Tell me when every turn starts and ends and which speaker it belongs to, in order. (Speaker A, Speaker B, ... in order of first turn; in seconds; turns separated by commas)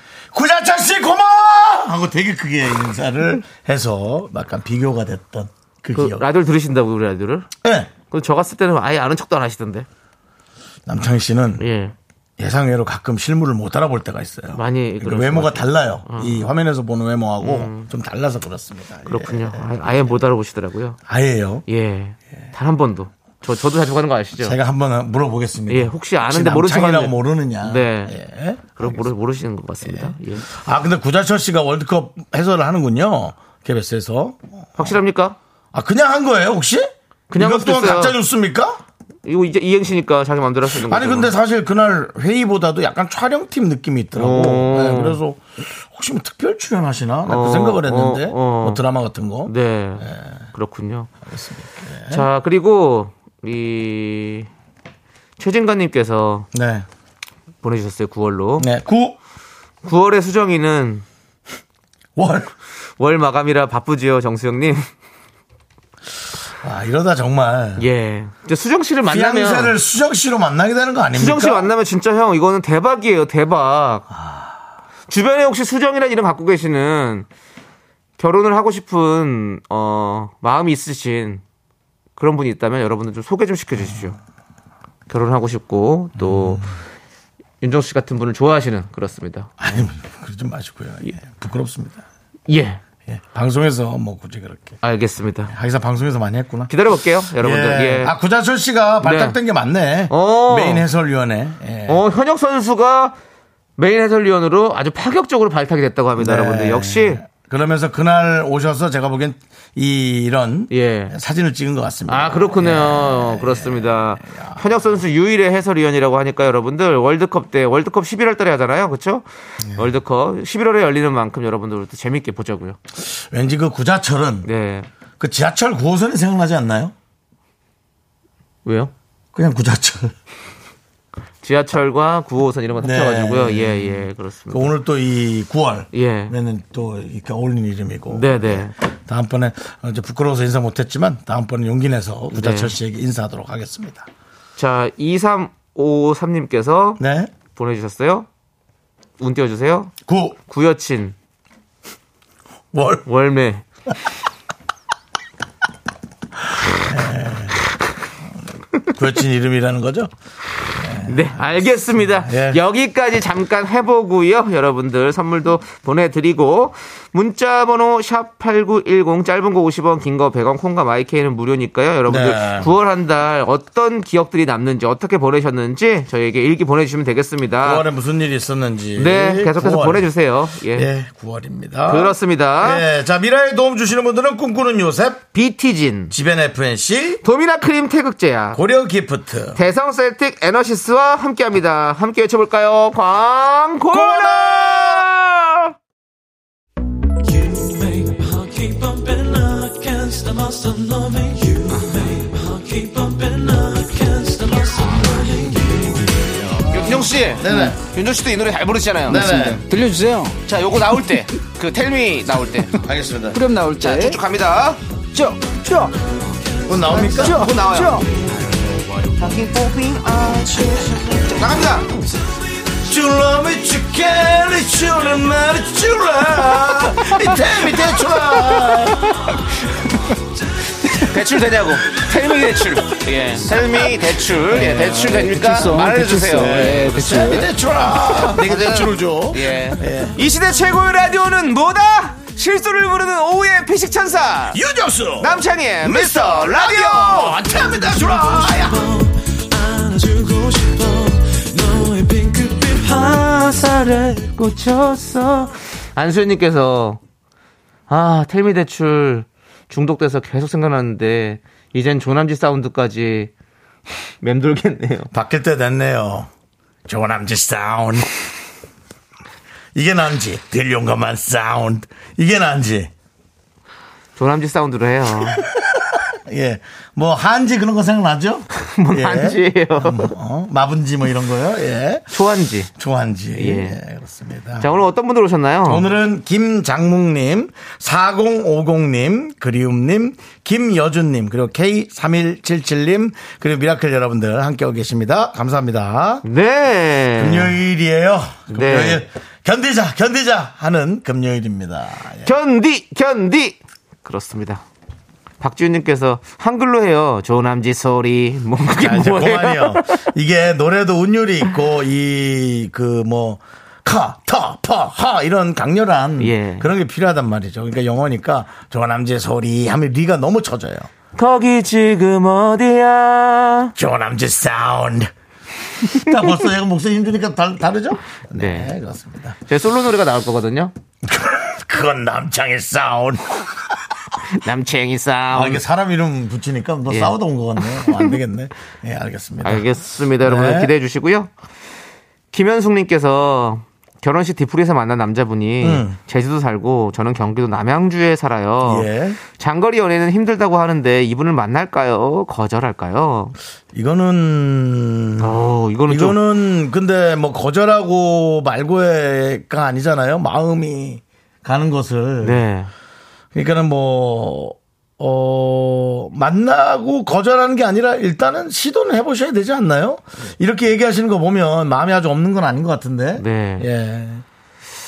Speaker A: 0.3-6.2, Speaker B: 5.9-7.5, Speaker A: 7.6-7.9, Speaker B: 8.1-9.9, Speaker A: 10.9-11.6, Speaker B: 11.6-11.9, Speaker A: 12.4-20.2, Speaker B: 14.5-16.5, Speaker B: 17.4-17.9, Speaker B: 19.1-21.0, Speaker A: 21.1-21.6, Speaker B: 21.7-24.6, Speaker A: 24.4-29.1, Speaker B: 25.7-28.1, Speaker B: 28.8-30.5, Speaker A: 29.8-35.0, Speaker B: 34.8-35.4, Speaker A: 35.7-38.8, Speaker B: 37.3-38.2, Speaker B: 39.2-41.3, Speaker A: 40.7-50.3, Speaker B: 44.1-45.2, Speaker B: 47.2-48.8, Speaker B: 49.5-51.1, Speaker A: 51.3-52.3, Speaker B: 52.1-54.5, Speaker B: 55.4-56.5, Speaker A: 56.5-56.9, Speaker B: 57.6-58.7, Speaker A: 58.6-59.2, Speaker B: 59.8-61.0, Speaker A: 62.2-62.5, Speaker B: 63.0-64.9, Speaker A: 66.6-67.9, Speaker B: 67.8-69.8, Speaker A: 69.1-71.7, Speaker B: 71.1-74.1, Speaker B: 75.1-77.3, Speaker B: 78.2-81.4, Speaker B: 82.2-84.2, Speaker B: 85.1-86.6, Speaker A: 86.2-86.7, Speaker B: 87.6-89.8, Speaker A: 89.6-92.0, Speaker B: 92.5-92.8, Speaker A: 93.1-94.8, Speaker B: 94.8-95.5, Speaker A: 95.5-96.7, Speaker B: 96.7-98.1, Speaker A: 97.4-102.0, Speaker B: 99.0-99.4, Speaker B: 100.1-100.8, Speaker B: 101.9-103.2, Speaker B: 103.8-107.2, Speaker A: 106.2-114.6, Speaker B: 110.7-111.1, Speaker B: 112.1-122.8, Speaker A: 123.0-124.5, Speaker B: 124.5-124.9, Speaker A: 125.2-126.9, Speaker B: 128.6-128.9, Speaker A: 129.3-130.1, Speaker B: 131.4-134.7, Speaker A: 132.8-144.1, Speaker B: 135.9-136.3, Speaker B: 138.1-138.7, Speaker B: 142.3-142.8, Speaker B: 144.6-147.0, Speaker A: 147.0-147.3, Speaker B: 147.5-148.3, Speaker B: 149.2-149.9, Speaker A: 150.1-150.4, Speaker B: 150.5-151.1, Speaker A: 152.7-153.1, Speaker B: 153.1-153.6, Speaker A: 156.8-157.5, Speaker A: 158.9-160.1, Speaker A: 160.7-161.4, Speaker B: 161.0-177.8, Speaker A: 162.1-162.6, Speaker A: 172.1-172.7, Speaker A: 177.6-180.1, Speaker B: 179.0-180.9, Speaker A: 180.7-185.2, Speaker B: 181.9-182.8, Speaker B: 185.3-186.1, Speaker A: 186.1-187.2, Speaker B: 187.2-188.6, Speaker A: 188.5-189.6, Speaker B: 189.5-195.7, Speaker A: 193.9-195.1, Speaker B: 198.0-201.6, Speaker B: 202.1-205.4, Speaker B: 206.7-209.3, Speaker A: 207.3-207.8, Speaker C: 207.5-207.8, Speaker A: 209.1-209.6, Speaker C: 209.1-210.4, Speaker B: 210.5-212.8, Speaker A: 212.8-213.4, Speaker C: 213.3-214.2, Speaker B: 213.8-214.8, Speaker C: 215.1-215.9, Speaker A: 216.6-217.5, Speaker B: 216.9-218.0, Speaker C: 217.0-218.1, Speaker B: 219.2-221.9, Speaker A: 222.7-229.4, Speaker B: 230.9-237.3, Speaker A: 233.5-234.9, Speaker C: 234.5-237.5, Speaker A: 236.3-240.2, Speaker B: 238.2-244.6, Speaker A: 244.5-249.1, Speaker B: 245.2-247.4, Speaker B: 249.6-257.0, Speaker B: 257.9-263.3, Speaker B: 264.2-265.1, Speaker A: 265.1-266.3, Speaker A: 266.9-268.2, Speaker A: 269.8-272.9, Speaker B: 274.1-275.4, Speaker A: 275.2-282.1, Speaker B: 278.6-280.1, Speaker B: 282.1-282.7, Speaker A: 282.8-284.8, Speaker B: 283.4-283.8, Speaker B: 284.6-285.8, Speaker A: 285.6-296.2, Speaker B: 296.2-297.6, Speaker A: 297.1-302.3, Speaker B: 298.5-299.0, Speaker B: 302.2-304.6, Speaker B: 305.4-310.0, Speaker A: 308.8-320.9, Speaker B: 316.2-316.7, Speaker B: 321.1-323.8, Speaker A: 323.8-325.1, Speaker A: 325.8-329.4, Speaker B: 328.4-328.8, Speaker B: 329.5-330.7, Speaker A: 331.0-333.9, Speaker B: 334.3-335.6, Speaker A: 335.3-340.7, Speaker B: 336.9-338.1, Speaker B: 339.4-341.3, Speaker B: 342.3-353.4, Speaker A: 345.6-346.0, Speaker A: 348.6-349.2, Speaker A: 353.7-355.4, Speaker B: 355.2-356.2, Speaker A: 355.9-362.4, Speaker B: 362.2-362.7, Speaker A: 363.3-374.2, Speaker B: 373.2-373.7